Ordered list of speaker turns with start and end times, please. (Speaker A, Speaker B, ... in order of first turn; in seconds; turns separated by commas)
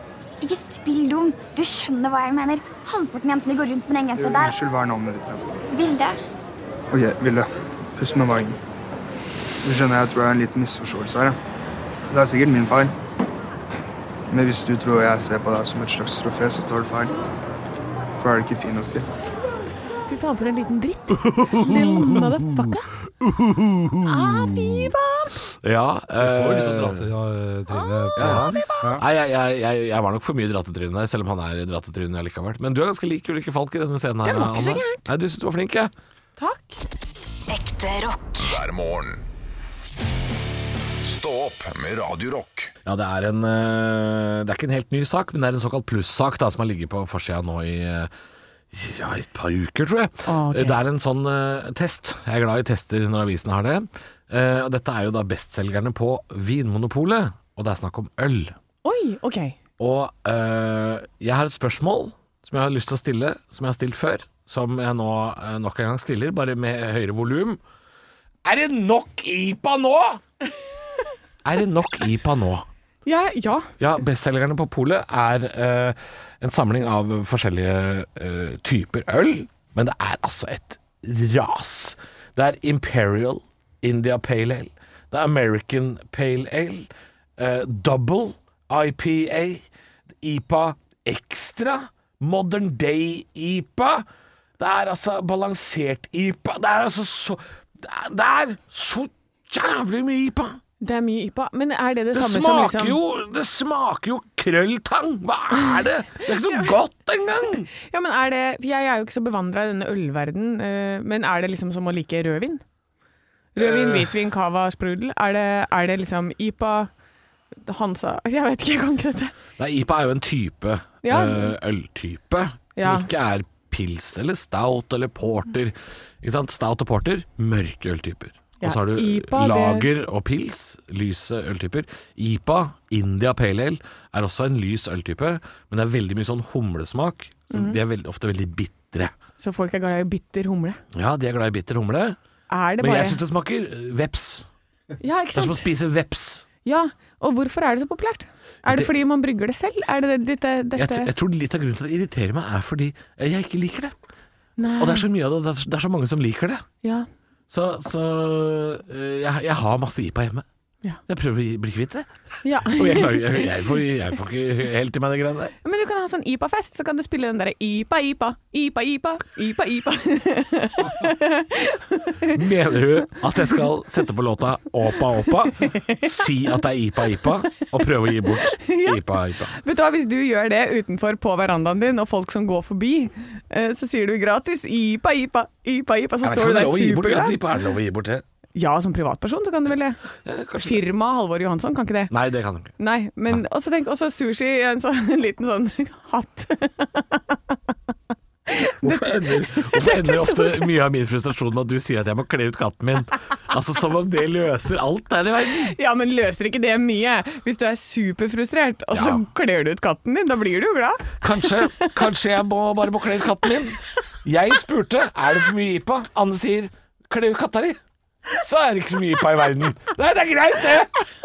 Speaker A: 0.4-4.5, Speaker B: 4.2-5.6, Speaker A: 5.7-6.2, Speaker B: 6.9-8.6, Speaker B: 9.6-11.4, Speaker B: 12.1-12.9, Speaker B: 14.3-17.1, Speaker B: 18.2-19.1, Speaker C: 20.1-22.9, Speaker D: 21.1-24.9, Speaker C: 24.0-25.4, Speaker D: 25.5-27.1, Speaker E: 26.2-29.0, Speaker C: 27.7-29.0, Speaker D: 28.1-35.9, Speaker C: 34.2-35.1, Speaker C: 36.4-36.8, Speaker A: 37.5-38.5, Speaker F: 38.4-39.2, Speaker F: 41.0-42.7, Speaker D: 42.8-48.1, Speaker D: 48.7-58.5, Speaker C: 50.2-50.8, Speaker C: 58.8-59.6, Speaker D: 59.8-67.6, Speaker D: 68.4-70.2, Speaker D: 71.4-72.7, Speaker C: 73.0-73.7, Speaker D: 73.8-89.6, Speaker D: 90.2-94.0, Speaker D: 94.6-100.6, Speaker C: 100.8-103.0, Speaker D: 102.1-107.7, Speaker C: 106.2-106.7, Speaker C: 107.7-112.6, Speaker C: 113.5-116.9, Speaker D: 113.5-114.1, Speaker C: 117.6-119.3, Speaker D: 119.6-139.1, Speaker C: 121.0-121.5, Speaker C: 122.8-123.1, Speaker C: 128.6-129.9, Speaker C: 137.5-137.8, Speaker C: 139.4-140.8, Speaker D: 140.9-142.2, Speaker C: 142.5-143.2, Speaker D: 142.8-144.5, Speaker C: 145.0-145.7, Speaker D: 145.3-146.4, Speaker C: 146.6-151.1, Speaker D: 148.7-148.9, Speaker D: 150.8-153.9, Speaker C: 154.6-155.1, Speaker D: 154.8-156.6, Speaker D: 157.5-160.4, Speaker D: 161.1-162.1, Speaker C: 162.4-163.6, Speaker D: 162.6-165.5, Speaker C: 165.6-172.4, Speaker D: 172.2-179.5, Speaker C: 175.6-176.3, Speaker C: 178.4-179.0, Speaker C: 179.5-187.4, Speaker D: 186.2-188.2, Speaker C: 188.6-190.0, Speaker D: 190.2-190.8, Speaker C: 190.6-192.1, Speaker D: 192.1-192.7, Speaker C: 192.8-197.6, Speaker C: 198.5-200.7, Speaker D: 198.8-205.7, Speaker C: 205.6-212.0, Speaker D: 208.9-209.2, Speaker D: 211.2-217.8, Speaker D: 218.3-221.0